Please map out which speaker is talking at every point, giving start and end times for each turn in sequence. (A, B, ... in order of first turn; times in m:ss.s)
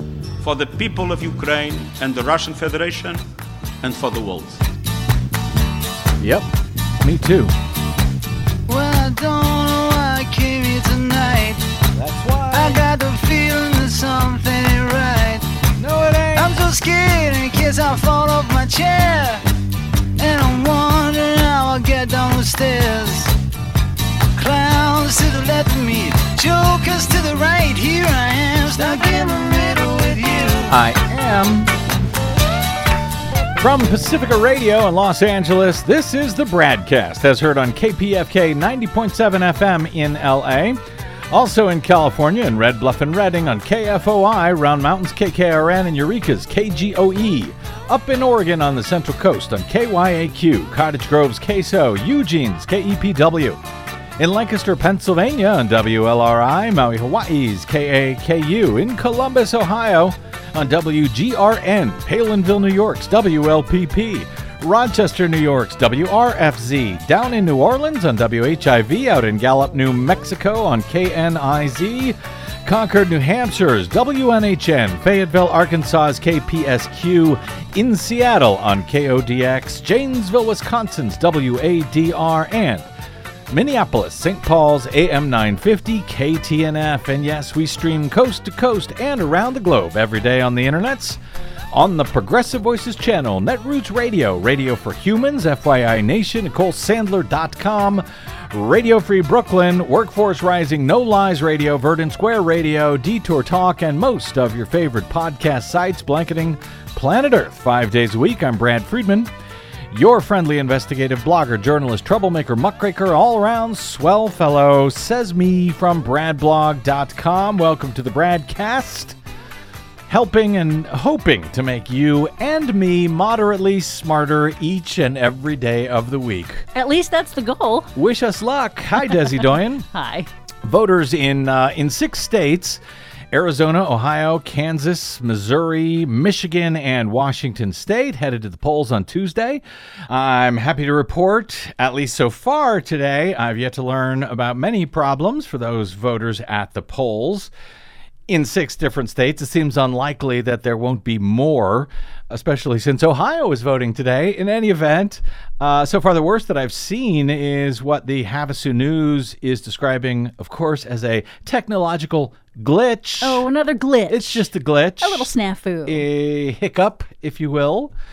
0:00.4-0:03.2 A
0:03.8-0:04.6 A
0:06.2-0:06.5 B
0:07.0-0:07.5 B
0:08.7-0:11.6 C
0:12.0-0:12.8 B
0:12.5-0:15.4 C
0:15.8-0:16.6 B
0:16.3-0:19.4 C
0:20.2-0:23.3 C
0:24.4-0:30.8 C
0:28.8-0:29.1 B
0:30.7-0:31.7 B
0:33.6-0:40.8 B
0:41.3-0:53.6 B
0:54.2-1:22.9 B
1:23.5-1:31.2 B
1:31.7-1:49.3 B
1:49.9-1:59.2 B
2:00.1-2:06.7 B
2:06.8-2:07.9 D
2:08.0-2:09.9 B
2:09.9-2:10.3 D
2:10.6-2:27.5 B
2:28.3-2:43.5 B
2:43.2-2:44.5 D
2:44.1-2:45.3 B
2:45.0-2:46.0 D
2:45.8-2:47.9 B